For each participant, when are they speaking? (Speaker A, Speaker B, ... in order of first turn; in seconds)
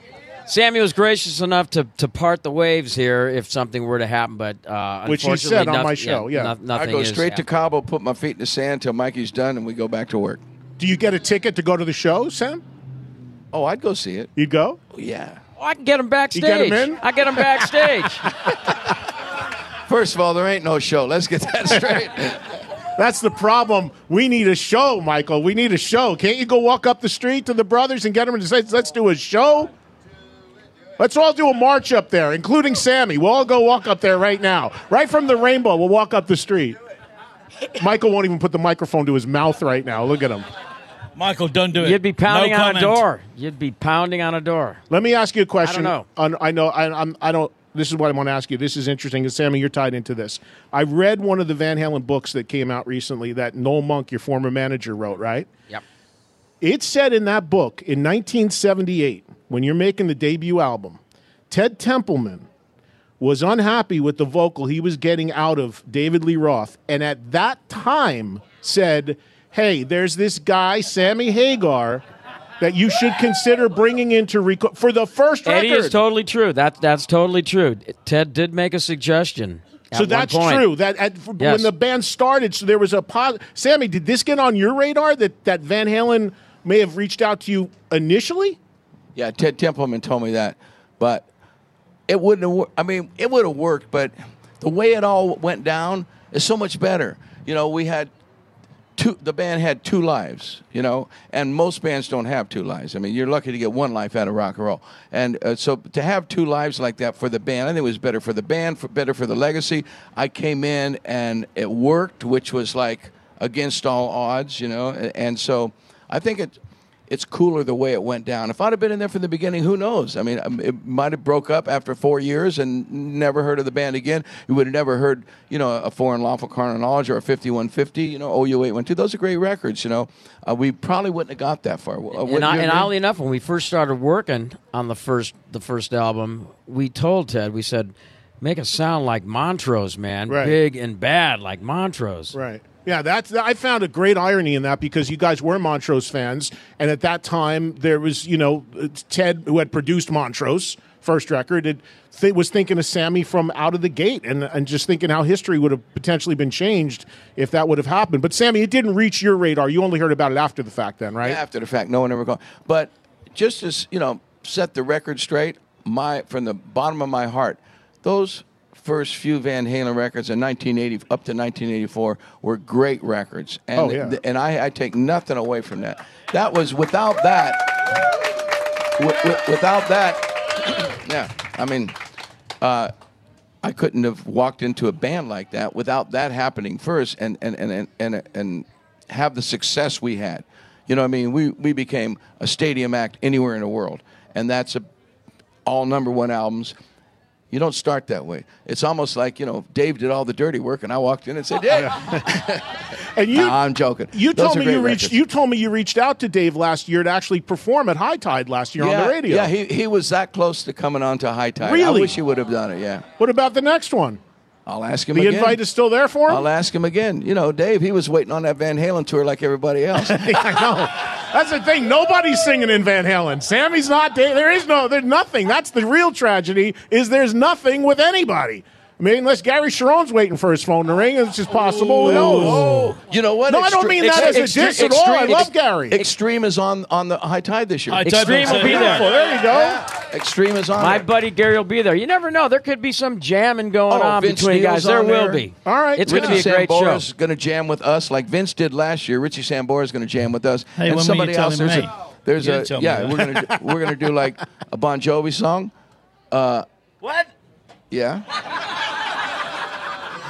Speaker A: 0.5-7.4, 15.6-18.3, 41.7-44.8, 45.6-46.0, 75.5-80.7, 81.4-81.7, 132.2-142.4, 234.1-236.1, 238.0-239.1, 240.8-247.1
Speaker B: 5.0-6.5, 10.8-12.6, 14.3-14.8, 16.3-18.6, 22.9-29.7, 31.0-36.8, 37.8-40.5, 44.9-55.5, 56.6-62.5, 63.2-72.0, 72.6-76.0, 79.9-88.6, 140.3-140.6, 142.3-161.4, 173.8-174.2, 203.1-203.6, 204.1-209.5, 211.6-212.2, 213.2-214.2, 215.1-216.4, 219.9-232.7, 233.5-236.0, 238.4-239.8, 245.6-246.4
Speaker C: 6.7-10.4, 13.5-14.3, 14.9-15.4, 19.9-22.6, 89.1-91.3, 92.1-98.1, 99.0-116.5, 117.1-132.9, 161.2-178.0, 179.0-181.9, 182.6-182.9, 183.6-194.8, 195.7-196.7, 197.5-205.2, 208.8-213.0, 214.7-215.6, 216.3-220.7, 232.0-238.1, 239.3-241.1, 243.9-245.4, 246.0-255.7, 256.3-256.6, 257.9-258.2
Speaker D: 41.2-43.0, 232.0-232.8, 237.9-239.1, 250.8-253.3, 257.0-257.3